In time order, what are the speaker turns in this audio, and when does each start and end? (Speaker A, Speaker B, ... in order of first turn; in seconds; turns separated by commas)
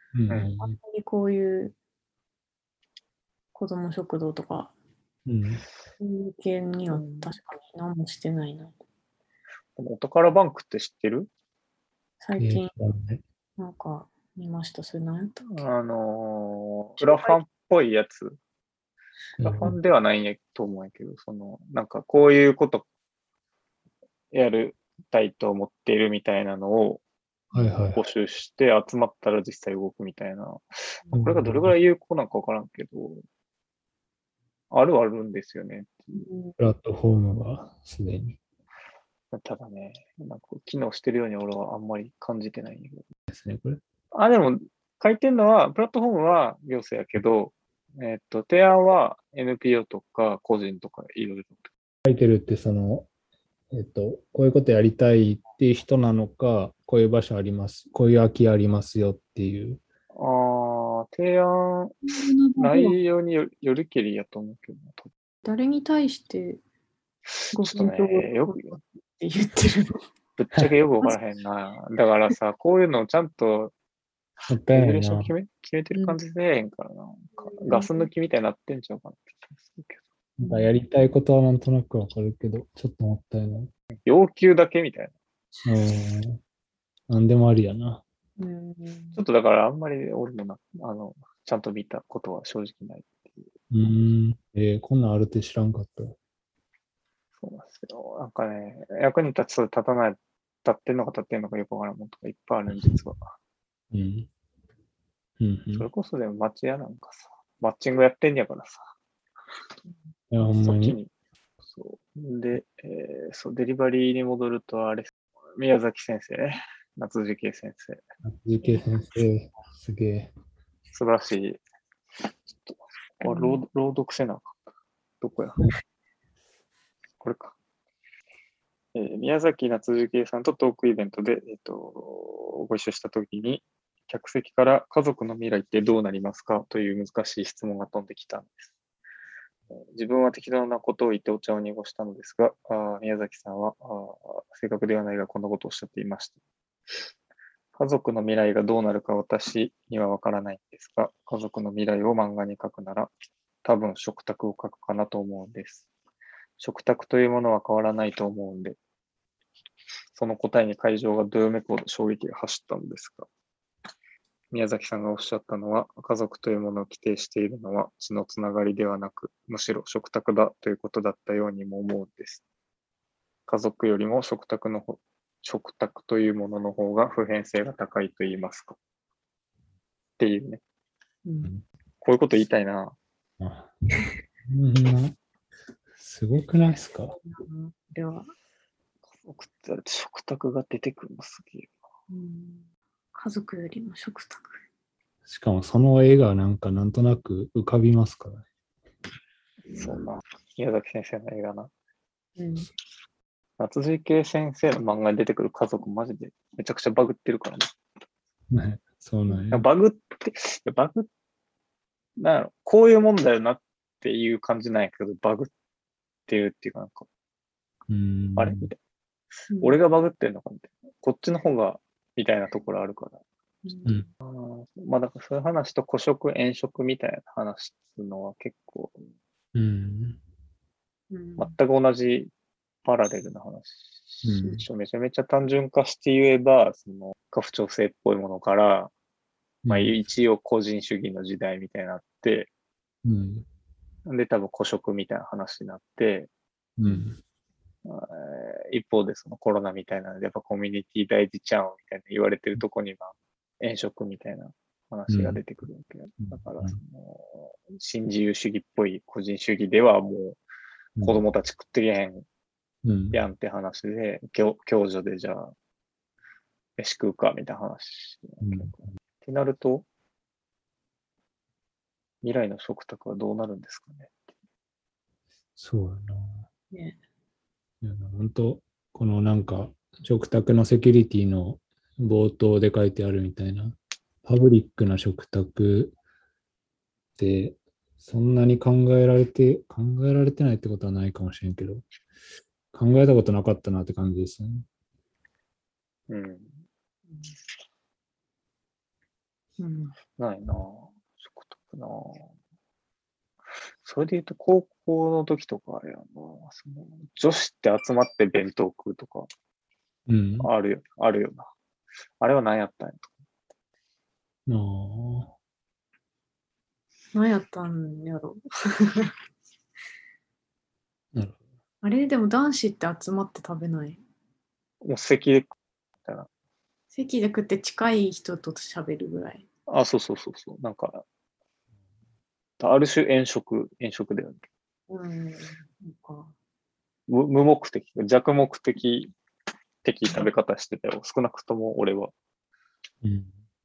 Speaker A: 0.1-0.7, Speaker B: 0.6-1.8, Speaker B: 3.5-4.7, Speaker A: 5.3-5.7, Speaker B: 6.0-8.8, Speaker C: 6.9-7.3, Speaker C: 9.8-11.3, Speaker B: 12.2-12.7, Speaker A: 12.4-13.2, Speaker B: 13.6-15.7, Speaker C: 15.5-18.4, Speaker B: 17.0-17.4, Speaker A: 19.4-19.8, Speaker C: 19.4-22.9, Speaker C: 24.3-27.0, Speaker A: 27.5-28.0, Speaker C: 28.0-33.2, Speaker A: 31.1-31.8, Speaker C: 34.7-36.1, Speaker B: 36.1-36.5, Speaker A: 36.6-38.4, Speaker C: 39.3-43.1, Speaker A: 43.3-43.8, Speaker C: 44.1-51.7, Speaker A: 52.0-53.1, Speaker A: 53.7-59.8, Speaker C: 60.1-62.0, Speaker B: 62.1-63.0, Speaker C: 62.6-65.1, Speaker B: 65.4-66.6, Speaker C: 67.5-68.8, Speaker B: 67.5-70.0, Speaker C: 70.4-73.7, Speaker A: 74.5-75.3, Speaker C: 74.7-80.0, Speaker B: 77.4-78.1, Speaker A: 80.4-83.7, Speaker B: 80.4-80.7, Speaker C: 84.0-85.2, Speaker A: 85.7-86.4, Speaker A: 87.1-88.0, Speaker B: 88.4-89.2, Speaker C: 89.2-93.5, Speaker A: 93.7-96.2, Speaker C: 97.4-103.2, Speaker A: 103.9-104.3, Speaker A: 105.4-105.9, Speaker C: 105.7-108.9, Speaker A: 110.3-111.0, Speaker C: 110.6-111.1, Speaker C: 111.6-118.0, Speaker A: 118.2-120.3, Speaker C: 120.9-121.6, Speaker C: 122.7-124.5, Speaker B: 123.2-123.6, Speaker C: 125.2-125.7, Speaker C: 127.2-127.6, Speaker C: 128.9-138.7, Speaker C: 139.7-146.4, Speaker C: 147.8-153.1, Speaker C: 153.6-155.9, Speaker C: 156.6-158.8, Speaker C: 160.2-163.3, Speaker C: 164.5-172.4, Speaker C: 173.5-178.8, Speaker C: 180.2-180.6, Speaker B: 181.2-181.5, Speaker C: 182.0-183.0, Speaker A: 183.4-183.7, Speaker A: 184.5-185.2, Speaker A: 186.0-187.2, Speaker B: 187.1-188.3, Speaker C: 189.2-191.7, Speaker B: 192.1-194.6, Speaker A: 195.3-198.5, Speaker C: 199.7-201.7, Speaker B: 202.4-202.7, Speaker C: 203.6-207.7, Speaker A: 208.5-209.7, Speaker C: 209.5-211.1, Speaker C: 212.2-215.5, Speaker C: 216.3-217.1, Speaker A: 217.9-218.7, Speaker C: 218.4-218.8, Speaker B: 219.5-219.8, Speaker C: 219.6-223.2, Speaker B: 223.7-224.1, Speaker C: 224.2-229.0, Speaker A: 229.5-230.2, Speaker B: 231.1-231.6, Speaker C: 231.4-232.3, Speaker C: 232.8-238.9, Speaker A: 234.2-234.7, Speaker A: 239.7-239.9, Speaker C: 239.7-242.5, Speaker A: 243.1-243.5, Speaker C: 244.1-246.3, Speaker A: 246.8-247.2, Speaker C: 247.8-260.4, Speaker A: 255.1-255.4, Speaker A: 256.2-256.8, Speaker C: 261.0-262.3, Speaker A: 262.9-263.2, Speaker C: 263.1-265.5, Speaker C: 266.8-269.9, Speaker A: 268.4-268.8, Speaker C: 272.2-274.2, Speaker A: 275.6-276.5, Speaker B: 276.7-277.0, Speaker A: 277.8-286.0, Speaker A: 287.2-291.9, Speaker A: 292.7-294.7, Speaker C: 296.1-296.6, Speaker B: 297.1-297.4, Speaker B: 299.6-300.0, Speaker C: 300.2-302.3, Speaker C: 303.8-309.3, Speaker A: 310.1-310.5, Speaker C: 310.4-311.5, Speaker C: 312.2-313.1, Speaker A: 314.5-315.3, Speaker B: 317.1-319.1, Speaker A: 321.1-321.4, Speaker B: 321.8-324.0, Speaker C: 324.8-326.3, Speaker B: 326.9-329.5, Speaker C: 329.7-331.0, Speaker C: 332.6-334.4, Speaker B: 334.9-336.3, Speaker C: 337.1-339.1, Speaker C: 339.8-342.1, Speaker A: 343.0-343.4